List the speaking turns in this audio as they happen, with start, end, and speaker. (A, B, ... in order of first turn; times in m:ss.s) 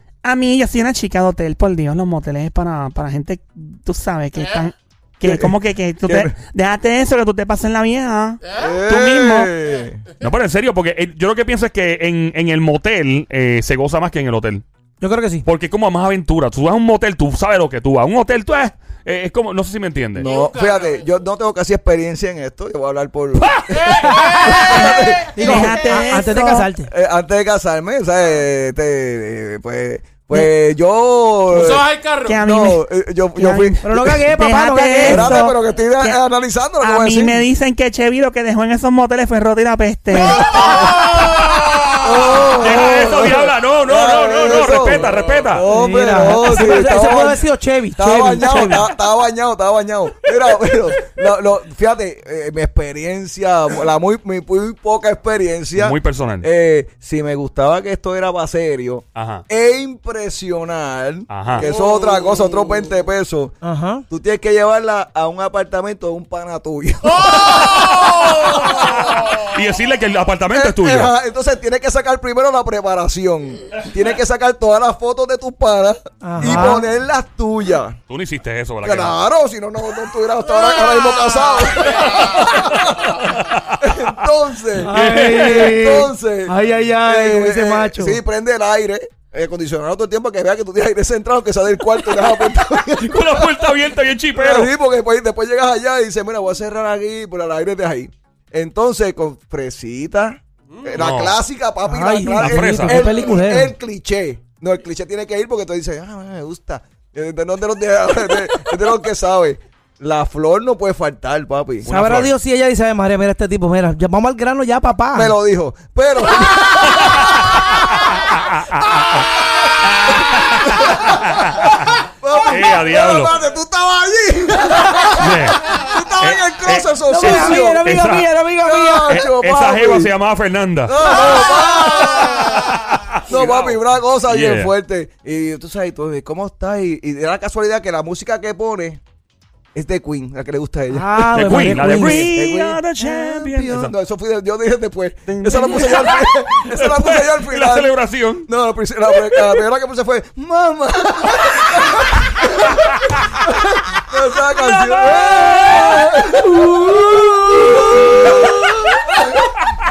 0:00.2-0:09.5 A
0:04.4-0:04.7 B
0:05.2-0:05.5 C
0:06.1-0:06.4 C
0:08.4-0:08.8 B
0:08.5-0:10.0 C
0:09.6-0:10.3 B
0:10.2-0:14.6 D
0:15.0-0:15.5 E
0:15.5-0:20.3 D
0:20.2-0:25.8 C
0:20.3-0:21.2 B
0:23.4-0:25.0 D
0:24.9-0:26.7 A
0:25.4-0:26.9 E
0:26.9-0:31.9 C
0:31.5-0:32.3 B
0:32.3-0:36.2 A
0:32.4-0:34.2 C
0:33.8-0:35.4 E
0:35.0-0:37.4 C
0:36.8-0:40.5 A
0:40.4-0:41.1 C
0:40.4-0:45.6 D
0:40.5-0:42.5 B
0:42.0-0:47.4 C
0:45.1-0:45.4 B
0:45.7-0:48.9 E
0:48.0-1:03.6 C
0:55.8-0:56.5 D
0:59.2-0:59.4 D
1:01.3-1:01.7 D
1:01.6-1:02.9 B
1:03.6-1:04.1 E
1:04.1-1:09.3 C
1:07.1-1:08.5 B
1:08.4-1:11.1 D
1:10.5-1:18.0 C
1:16.2-1:16.9 E
1:18.1-1:19.2 D
1:18.8-1:23.2 C
1:20.5-1:22.7 B
1:22.7-1:23.8 D
1:23.8-1:33.7 C
1:24.8-1:28.2 E
1:24.8-1:25.8 D
1:33.0-1:34.7 D
1:34.3-1:51.9 C
1:41.0-1:41.4 D
1:41.8-1:43.7 E
1:42.3-1:43.1 D
1:51.8-1:55.3 E
1:51.9-1:52.3 D
1:55.1-1:58.2 C
1:57.0-1:57.3 D
1:58.3-1:59.3 D
1:58.8-1:59.6 C
1:59.8-2:03.3 D
2:00.2-2:07.9 C
2:05.2-2:05.6 D
2:06.2-2:08.3 D
2:07.1-2:09.2 E
2:08.6-2:10.2 C
2:09.1-2:14.7 D
2:10.8-2:12.7 C
2:13.3-2:19.0 C
2:19.7-2:38.7 C
2:20.9-2:22.3 E
2:21.2-2:23.9 D
2:25.3-2:28.5 D
2:29.2-2:29.6 D
2:32.8-2:33.2 D
2:34.7-2:39.7 D